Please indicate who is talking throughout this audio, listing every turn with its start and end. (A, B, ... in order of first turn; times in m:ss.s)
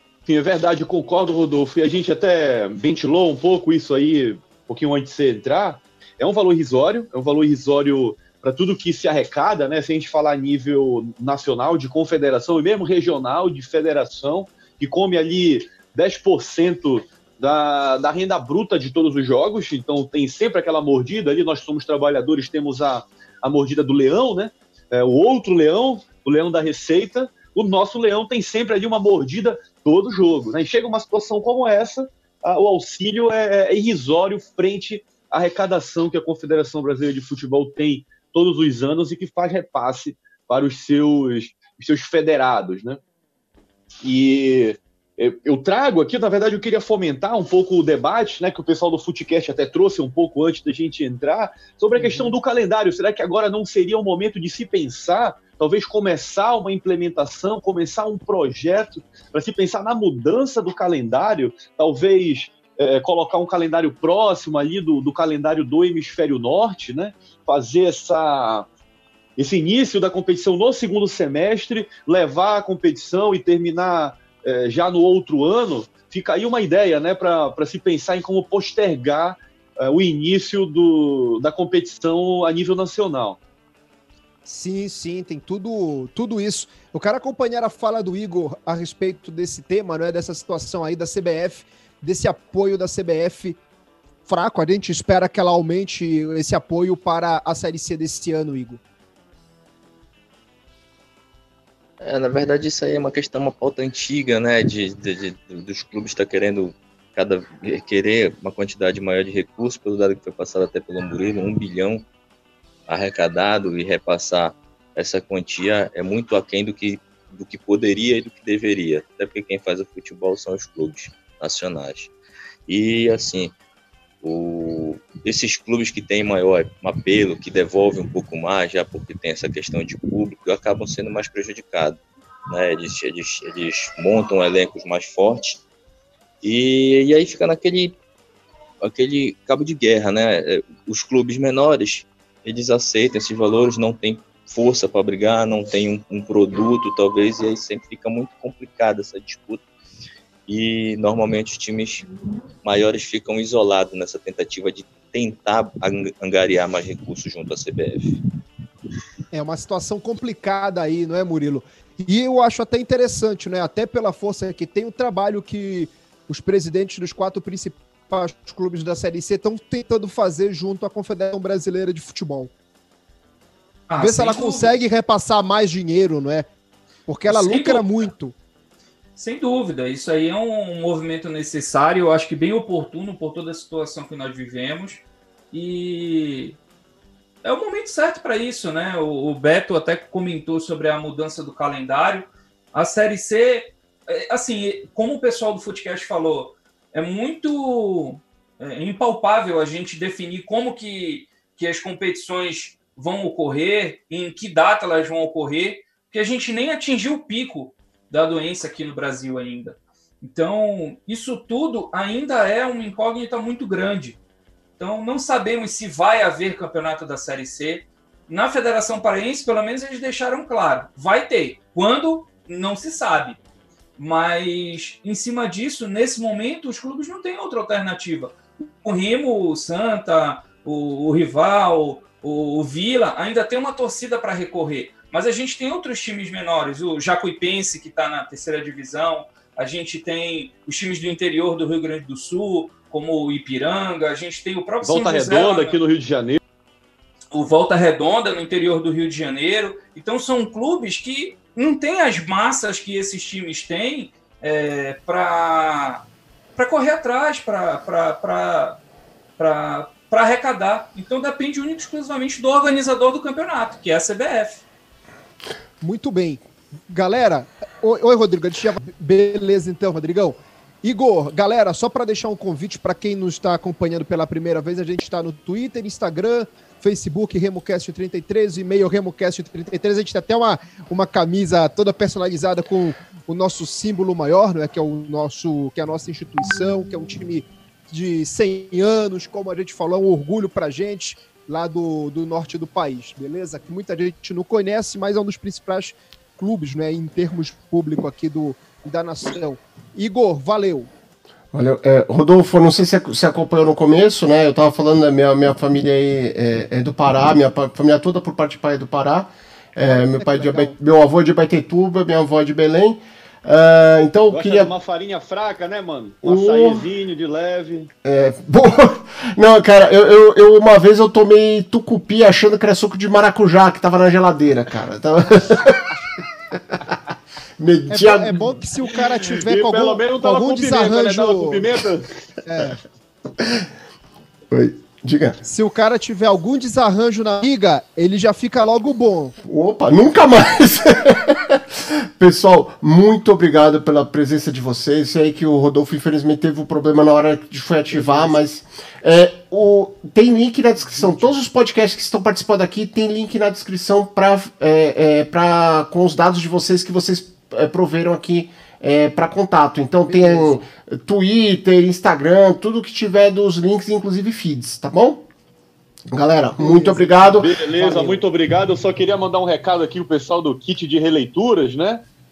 0:00.3-0:43.0 A
0:44.0-1:08.7 A
0:52.0-0:52.3 B
1:09.4-1:23.4 A
1:24.5-1:33.6 B
1:34.3-1:38.8 B
1:42.0-1:52.0 C
1:52.9-2:02.1 C
2:02.7-2:03.5 C
2:04.2-2:15.6 C
2:16.4-2:18.0 C
2:18.8-2:29.6 C
2:30.5-2:32.1 C
2:32.6-2:38.2 C
2:39.3-2:52.5 B
2:53.9-2:54.8 D
2:54.0-2:56.5 B
2:57.1-2:58.3 B
2:57.3-2:58.0 D
2:59.2-3:06.6 D
3:07.4-3:34.2 D
3:34.8-3:43.4 D
3:44.0-4:05.8 D
4:04.8-4:06.4 A
4:07.3-4:16.0 D
4:16.6-4:18.8 D
4:19.4-4:24.6 D
4:25.8-5:00.9 B
5:01.5-5:14.7 E
5:09.9-5:10.7 B
5:14.3-5:17.9 A
5:16.2-5:16.9 E
5:18.0-5:25.9 E
5:27.6-5:28.5 E
5:27.9-5:31.7 B
5:29.5-5:32.1 A
5:32.4-5:32.8 B
5:34.5-5:35.4 E
5:35.4-5:39.4 B
5:39.4-6:05.3 E
6:00.1-6:00.6 B
6:06.1-6:07.5 E
6:06.6-6:08.2 B
6:07.4-6:12.1 A